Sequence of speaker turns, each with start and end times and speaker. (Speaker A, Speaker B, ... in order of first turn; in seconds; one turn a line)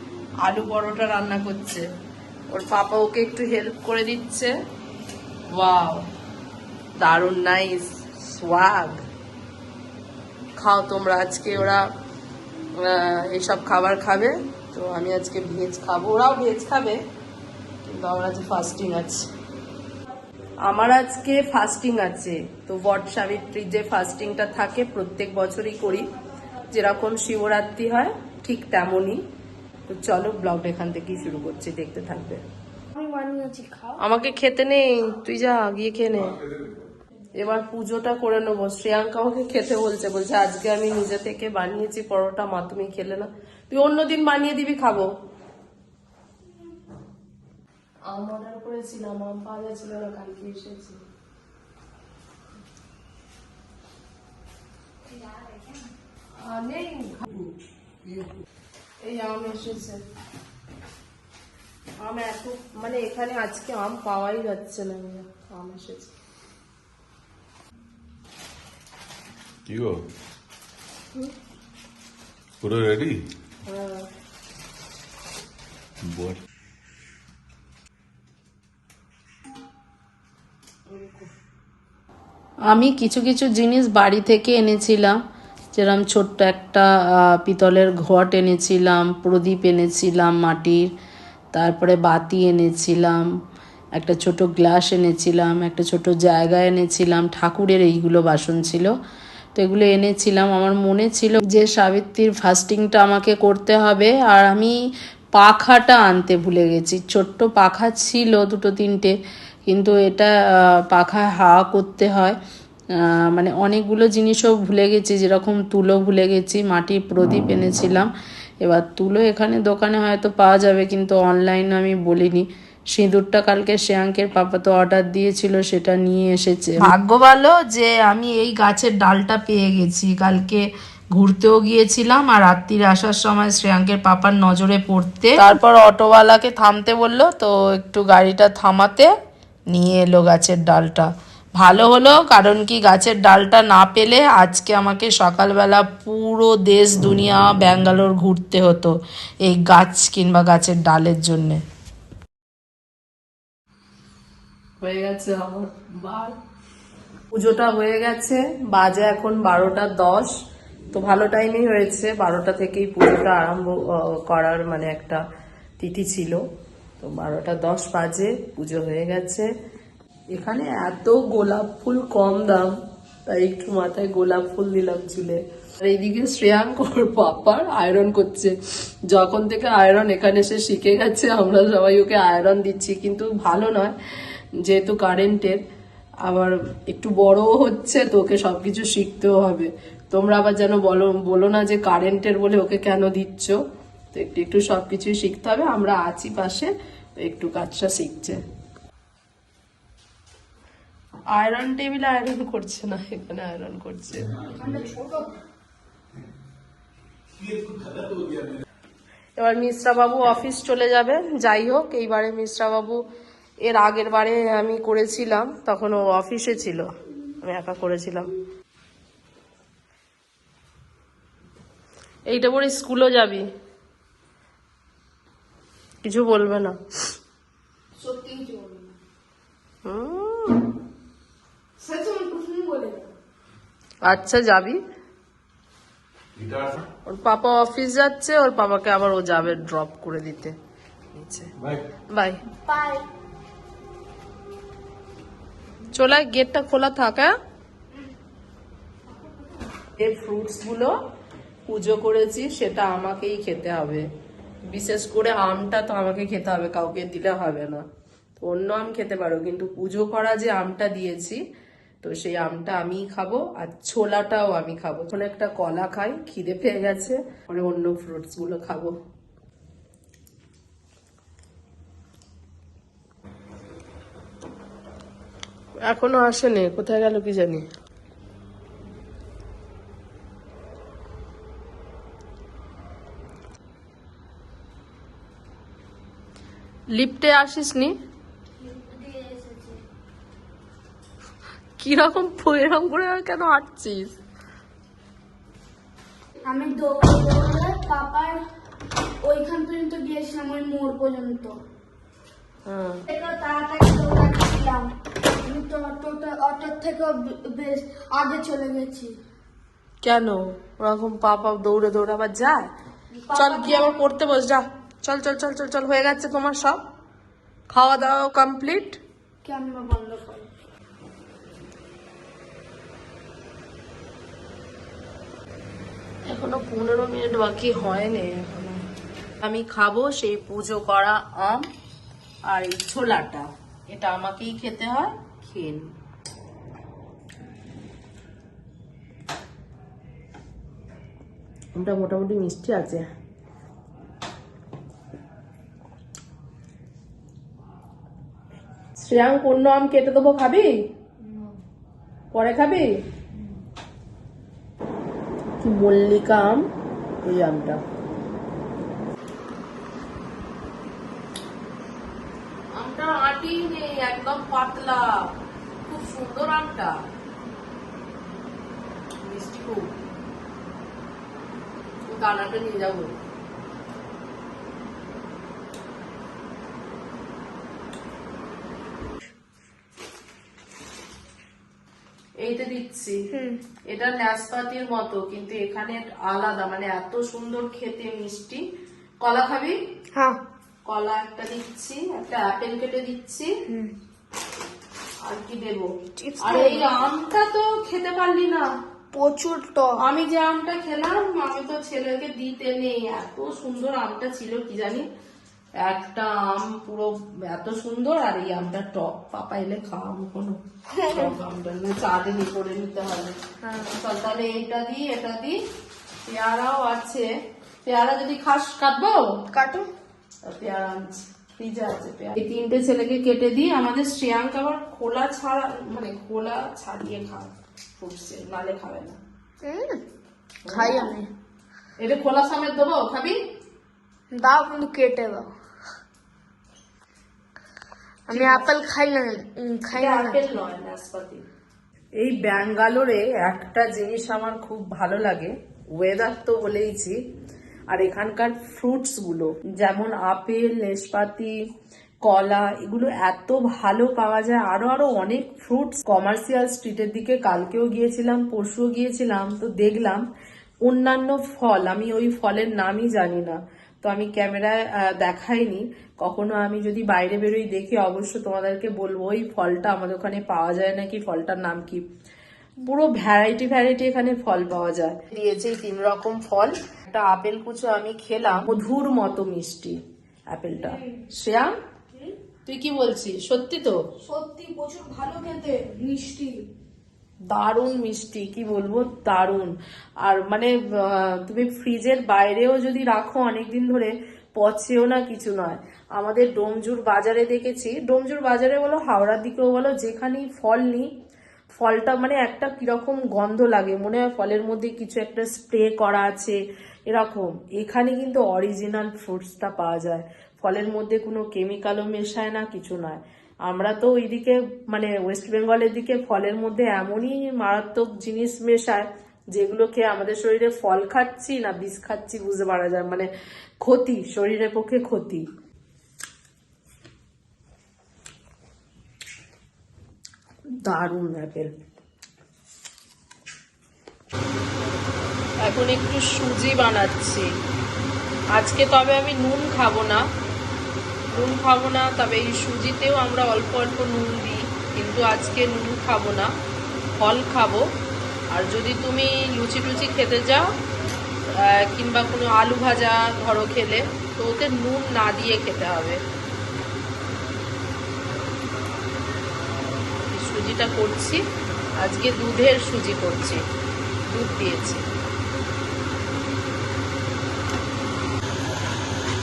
Speaker A: 0.4-1.9
Speaker A: 2.5-4.5
Speaker A: 5.5-6.1
Speaker A: 7.0-9.0
Speaker A: 10.6-11.8
Speaker A: 12.8-17.0
Speaker A: 17.9-19.3
Speaker A: 20.7-26.1
Speaker A: 26.7-29.2
Speaker A: 29.9-32.4
Speaker B: 33.0-34.0
Speaker A: 34.0-36.4
Speaker C: 36.2-36.9
Speaker A: 37.3-45.1
Speaker A: 48.1-51.0
Speaker B: 55.1-55.7
Speaker A: 56.4-57.5
Speaker A: 59.0-60.0
Speaker A: 62.0-66.1
Speaker C: 69.7-70.0
Speaker C: 72.6-73.2
Speaker A: 73.7-74.1
Speaker C: 76.1-76.4
Speaker A: 80.9-81.3
Speaker A: 82.7-85.2
Speaker A: 85.8-90.9
Speaker A: 91.5-93.2
Speaker A: 94.0-98.9
Speaker A: 99.6-104.8
Speaker A: 105.4-109.2
Speaker A: 109.7-112.4
Speaker A: 113.0-118.1
Speaker A: 118.6-139.1
Speaker A: 139.7-151.6
Speaker A: 154.8-156.3
Speaker A: 157.3-160.3
Speaker A: 160.9-165.2
Speaker A: 165.8-166.4
Speaker A: 167.0-169.5
Speaker A: 170.3-172.7
Speaker A: 173.3-178.6
Speaker A: 179.1-184.0
Speaker A: 184.6-185.6
Speaker A: 186.2-193.6
Speaker A: 194.1-198.4
Speaker A: 201.3-204.3
Speaker C: 204.3-204.9
Speaker B: 204.6-205.3
Speaker C: 207.4-208.6
Speaker A: 209.4-213.1
Speaker A: 213.6-218.3
Speaker A: 222.3-223.5
Speaker A: 226.0-226.8
Speaker B: 228.0-228.9
Speaker A: 229.8-230.6
Speaker B: 231.8-233.1
Speaker A: 234.0-234.8
Speaker C: 236.4-236.8
Speaker A: 237.1-240.6
Speaker A: 241.1-241.5
Speaker C: 241.6-241.8
Speaker A: 242.1-242.4
Speaker B: 242.7-243.1
Speaker A: 245.9-247.3
Speaker B: 249.2-249.5
Speaker A: 250.0-250.9
Speaker A: 251.7-254.1
Speaker A: 254.7-257.8
Speaker A: 258.4-261.4
Speaker A: 262.0-268.9
Speaker A: 275.8-277.6
Speaker A: 286.9-287.9
Speaker B: 288.6-289.8
Speaker A: 291.8-294.2
Speaker B: 296.4-298.4
Speaker B: 299.2-301.6
Speaker A: 302.7-303.0
Speaker B: 303.1-304.9
Speaker B: 305.4-309.2
Speaker A: 310.0-312.7
Speaker B: 313.1-314.0
Speaker A: 313.3-316.8
Speaker A: 317.7-319.0
Speaker B: 319.4-320.5
Speaker A: 326.3-328.8
Speaker A: 329.4-331.7
Speaker A: 332.5-335.9
Speaker A: 341.8-343.1
Speaker A: 348.9-350.7
Speaker B: 351.3-351.5
Speaker A: 352.3-353.0
Speaker A: 355.6-356.7
Speaker A: 357.2-357.8
Speaker A: 362.7-367.0
Speaker A: 369.2-369.9
Speaker A: 372.1-373.1
Speaker A: 382.4-383.2
Speaker B: 383.3-383.6
Speaker A: 383.9-388.6
Speaker A: 389.2-389.8
Speaker B: 390.1-390.4
Speaker A: 390.9-393.5
Speaker B: 393.7-393.9
Speaker A: 395.2-395.9
Speaker B: 396.2-397.1
Speaker A: 396.4-398.7
Speaker B: 399.1-400.0
Speaker A: 400.0-405.1
Speaker A: 405.8-415.6
Speaker B: 410.9-411.3
Speaker B: 413.6-413.9
Speaker A: 416.3-417.3
Speaker A: 417.9-419.4
Speaker B: 419.5-419.9
Speaker A: 420.4-429.2
Speaker B: 429.6-430.0
Speaker A: 430.6-431.1
Speaker B: 430.7-431.3
Speaker A: 432.0-433.4
Speaker B: 434.3-435.5
Speaker B: 438.3-440.4
Speaker A: 438.3-438.7
Speaker A: 439.9-441.4
Speaker A: 442.2-447.2
Speaker A: 447.9-451.6
Speaker A: 452.2-460.2
Speaker A: 460.9-472.0
Speaker A: 472.8-481.8
Speaker B: 480.8-481.2
Speaker A: 482.7-484.0
Speaker B: 484.2-486.7
Speaker A: 487.5-501.1
Speaker A: 501.7-523.3
Speaker A: 523.8-525.5
Speaker A: 530.8-531.7
Speaker A: 535.6-537.5
Speaker A: 538.5-540.2
Speaker A: 541.3-546.5
Speaker A: 547.2-547.9
Speaker A: 548.5-550.7
Speaker A: 551.5-556.2
Speaker A: 560.3-561.4
Speaker A: 562.0-563.6
Speaker A: 564.3-565.1